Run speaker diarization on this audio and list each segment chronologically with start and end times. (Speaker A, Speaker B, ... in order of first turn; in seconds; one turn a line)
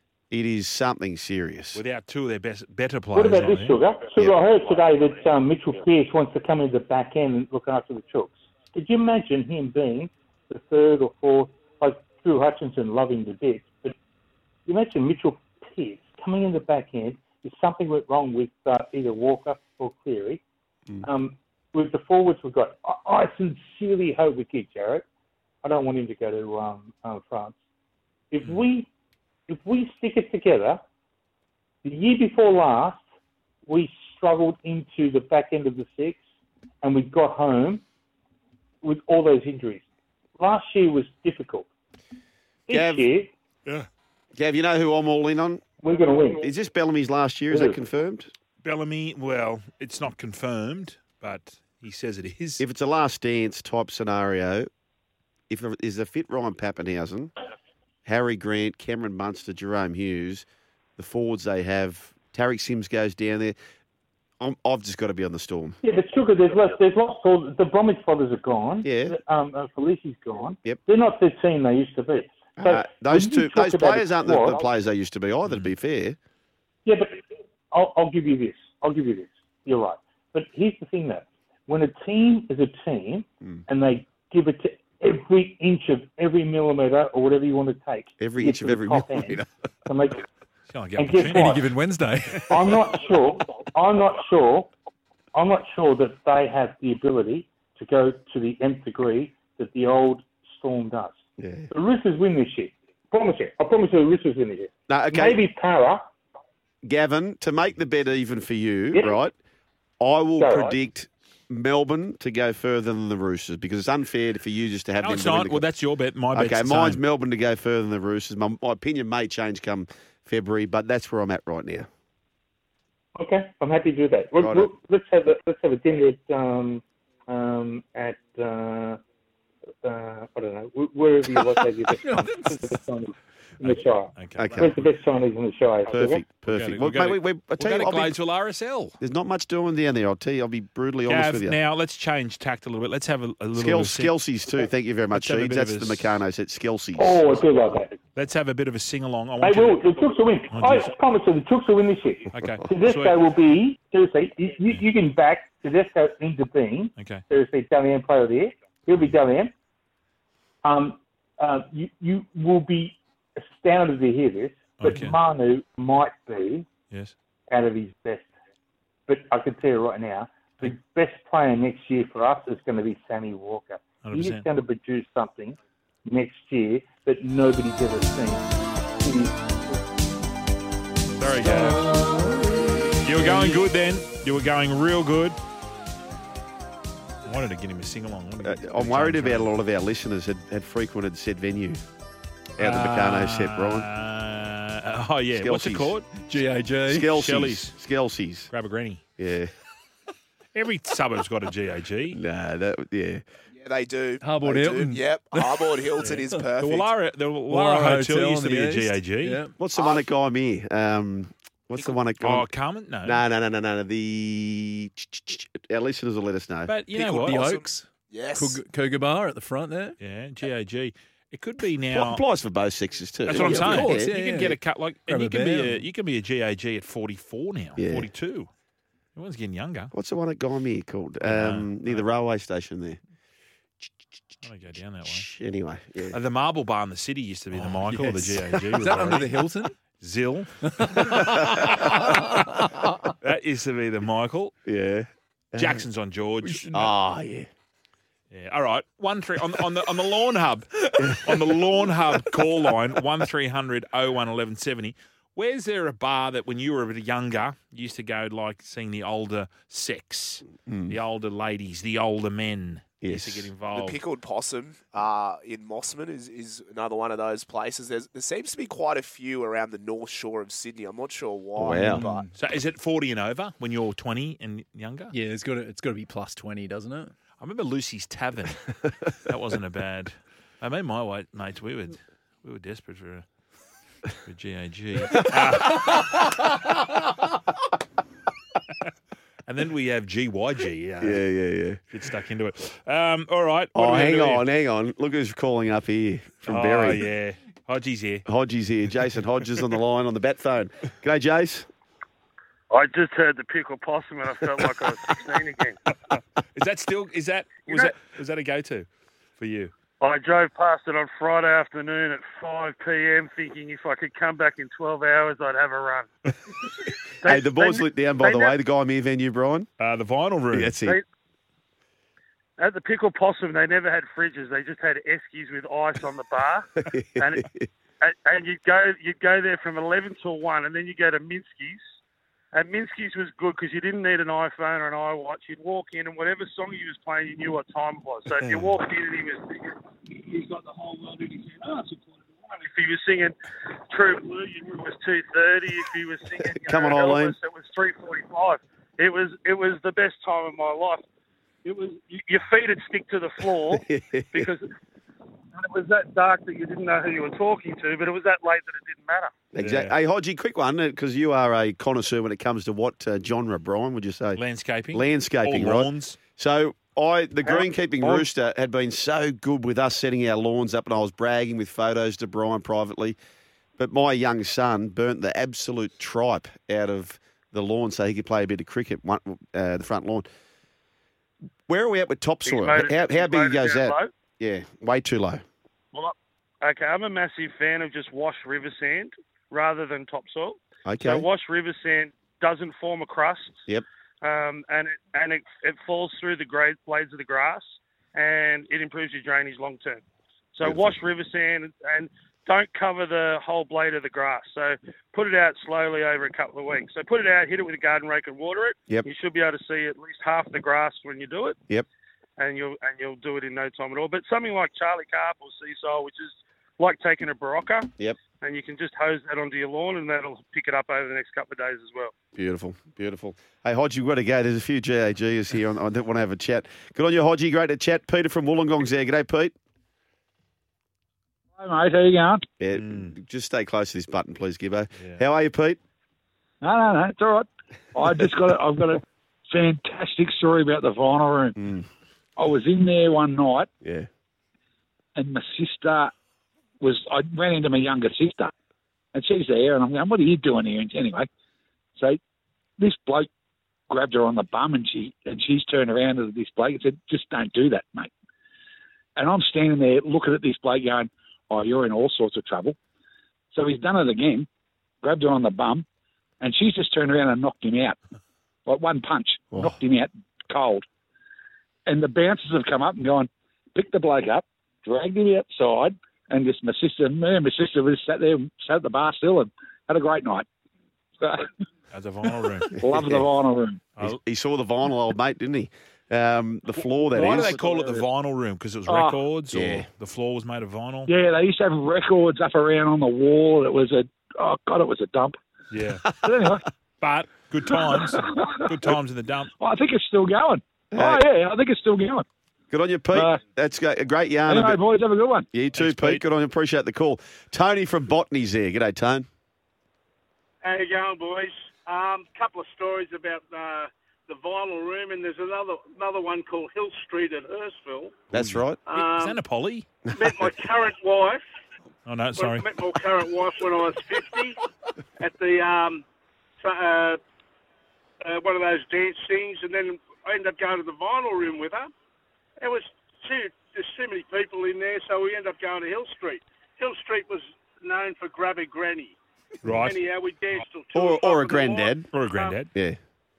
Speaker A: 0.3-1.8
Speaker B: 1.7-3.8
Speaker C: 3.1-13.9
Speaker C: 14.7-20.4
Speaker C: 21.0-25.1
Speaker C: 25.6-27.6
Speaker C: 28.3-28.9
Speaker C: 29.5-30.8
Speaker C: 31.8-33.0
Speaker C: 33.7-36.2
Speaker C: 36.8-37.8
Speaker C: 38.8-39.8
Speaker C: 40.4-41.7
Speaker C: 42.7-43.3
Speaker A: 42.7-43.1
Speaker A: 44.4-45.6
Speaker C: 45.8-46.4
Speaker A: 46.4-48.3
Speaker C: 47.5-47.8
Speaker B: 48.6-52.6
Speaker A: 52.6-54.7
Speaker A: 55.5-57.3
Speaker A: 58.0-60.5
Speaker A: 61.0-63.6
Speaker A: 64.4-65.8
Speaker C: 65.8-74.6
Speaker A: 68.8-69.2
Speaker A: 72.6-76.2
Speaker B: 75.5-75.7
Speaker C: 76.8-90.2
Speaker A: 88.2-89.5
Speaker B: 90.7-91.6
Speaker C: 91.0-91.7
Speaker D: 91.2-92.7
Speaker C: 92.5-94.7
Speaker C: 95.3-101.2
Speaker A: 101.4-101.7
Speaker C: 101.7-106.1
Speaker A: 104.9-105.4
Speaker A: 106.8-109.3
Speaker C: 108.9-109.2
Speaker A: 110.0-115.6
Speaker C: 110.4-110.8
Speaker B: 115.0-117.0
Speaker A: 116.3-121.9
Speaker C: 123.2-129.0
Speaker A: 124.4-124.7
Speaker C: 129.8-136.2
Speaker D: 132.0-132.5
Speaker B: 134.2-134.8
Speaker A: 134.4-134.8
Speaker A: 135.9-138.2
Speaker B: 136.5-139.0
Speaker A: 139.0-141.6
Speaker B: 141.1-144.1
Speaker A: 143.6-147.2
Speaker B: 145.1-146.1
Speaker C: 147.0-148.0
Speaker B: 148.2-150.9
Speaker C: 149.4-159.5
Speaker B: 152.3-153.2
Speaker B: 157.0-157.2
Speaker C: 160.6-166.7
Speaker B: 164.8-165.2
Speaker C: 167.5-168.3
Speaker C: 169.1-179.8
Speaker B: 174.0-174.4
Speaker B: 181.2-181.9
Speaker B: 183.0-185.4
Speaker B: 187.2-189.5
Speaker A: 188.4-191.8
Speaker A: 192.6-193.9
Speaker B: 192.6-196.4
Speaker A: 195.4-195.9
Speaker D: 196.3-197.1
Speaker A: 196.9-198.5
Speaker B: 197.0-197.8
Speaker B: 198.5-199.0
Speaker A: 199.2-199.5
Speaker B: 200.6-202.2
Speaker A: 202.1-203.2
Speaker E: 203.5-206.9
Speaker D: 204.2-206.4
Speaker B: 206.0-209.4
Speaker D: 207.5-209.5
Speaker A: 209.6-212.5
Speaker E: 209.8-210.1
Speaker B: 211.8-213.2
Speaker A: 213.1-216.7
Speaker B: 216.7-217.5
Speaker E: 216.9-218.6
Speaker D: 217.2-220.0
Speaker B: 220.0-222.2
Speaker A: 221.9-224.1
Speaker B: 223.3-228.5
Speaker D: 223.3-225.8
Speaker A: 227.8-228.1
Speaker B: 229.2-229.9
Speaker A: 229.9-233.0
Speaker B: 231.2-232.1
Speaker B: 234.4-235.3
Speaker A: 235.1-236.2
Speaker B: 236.1-239.3
Speaker D: 237.6-239.8
Speaker B: 240.0-241.0
Speaker D: 240.7-243.1
Speaker B: 241.8-242.1
Speaker B: 243.2-244.5
Speaker A: 244.7-245.8
Speaker B: 245.6-246.7
Speaker D: 246.4-246.8
Speaker A: 246.7-247.5
Speaker B: 248.3-264.0
Speaker A: 251.0-251.3
Speaker A: 260.7-261.0
Speaker A: 263.0-263.5
Speaker E: 263.7-272.3
Speaker A: 271.6-272.0
Speaker D: 271.6-272.3
Speaker B: 272.4-275.1
Speaker D: 275.1-277.1
Speaker B: 277.4-278.7
Speaker B: 279.2-283.2
Speaker B: 284.2-286.3
Speaker B: 289.5-291.2
Speaker A: 291.0-291.8
Speaker B: 291.9-294.4
Speaker A: 293.8-297.1
Speaker B: 296.5-298.3
Speaker A: 298.3-301.7
Speaker F: 302.7-305.8
Speaker B: 306.6-308.9
Speaker F: 307.7-307.9
Speaker B: 309.4-309.7
Speaker F: 310.0-316.1
Speaker F: 317.2-318.6
Speaker A: 317.2-319.7
Speaker B: 319.8-320.8
Speaker A: 320.5-321.0
Speaker F: 322.6-327.5
Speaker A: 326.9-327.7
Speaker F: 328.0-331.8
Speaker F: 332.5-342.0
Speaker F: 342.5-351.1
Speaker A: 346.6-347.3
Speaker F: 351.6-354.7
Speaker A: 353.8-354.5
Speaker F: 355.6-359.3
Speaker A: 359.5-364.4
Speaker B: 359.6-359.9
Speaker B: 364.4-366.2
Speaker A: 364.9-373.2
Speaker F: 367.4-368.2
Speaker A: 373.8-380.3
Speaker A: 381.7-385.4
Speaker F: 382.5-384.1
Speaker F: 385.9-393.6
Speaker A: 390.9-391.2
Speaker F: 394.2-400.0
Speaker F: 400.6-411.6
Speaker A: 400.6-401.0
Speaker F: 412.4-417.9
Speaker F: 418.4-422.1
Speaker A: 422.3-429.6
Speaker G: 431.6-432.5
Speaker A: 432.6-435.8
Speaker B: 432.7-433.1
Speaker B: 435.0-435.2
Speaker G: 436.6-441.6
Speaker A: 441.6-441.9
Speaker G: 442.4-443.7
Speaker A: 443.8-444.1
Speaker G: 445.2-446.1
Speaker G: 446.8-448.5
Speaker G: 449.1-451.3
Speaker G: 452.8-453.3
Speaker G: 453.9-458.1
Speaker G: 459.2-462.8
Speaker G: 463.5-464.5
Speaker G: 465.0-465.9
Speaker G: 466.4-468.0
Speaker G: 468.7-470.9
Speaker G: 471.9-480.5
Speaker G: 481.2-481.5
Speaker B: 481.9-482.7
Speaker G: 482.7-483.9
Speaker A: 482.8-483.3
Speaker A: 484.0-487.6
Speaker B: 486.7-491.1
Speaker G: 488.9-489.2
Speaker A: 489.5-489.9
Speaker G: 491.1-495.4
Speaker B: 495.7-496.1
Speaker G: 496.1-496.7
Speaker B: 497.0-499.5
Speaker G: 497.7-498.7
Speaker G: 499.6-502.2
Speaker A: 500.9-501.2
Speaker A: 502.7-504.8
Speaker G: 503.1-503.4
Speaker G: 504.5-505.5
Speaker A: 505.5-509.3
Speaker B: 505.8-506.2
Speaker H: 510.6-518.2
Speaker B: 518.3-519.9
Speaker A: 518.3-518.8
Speaker H: 518.9-519.4
Speaker H: 520.1-521.4
Speaker B: 522.0-522.7
Speaker H: 522.4-524.6
Speaker H: 525.2-526.0
Speaker H: 526.6-527.2
Speaker H: 528.2-531.9
Speaker H: 532.6-539.2
Speaker B: 539.6-540.0
Speaker H: 539.8-542.6
Speaker A: 540.9-542.1
Speaker B: 542.1-542.7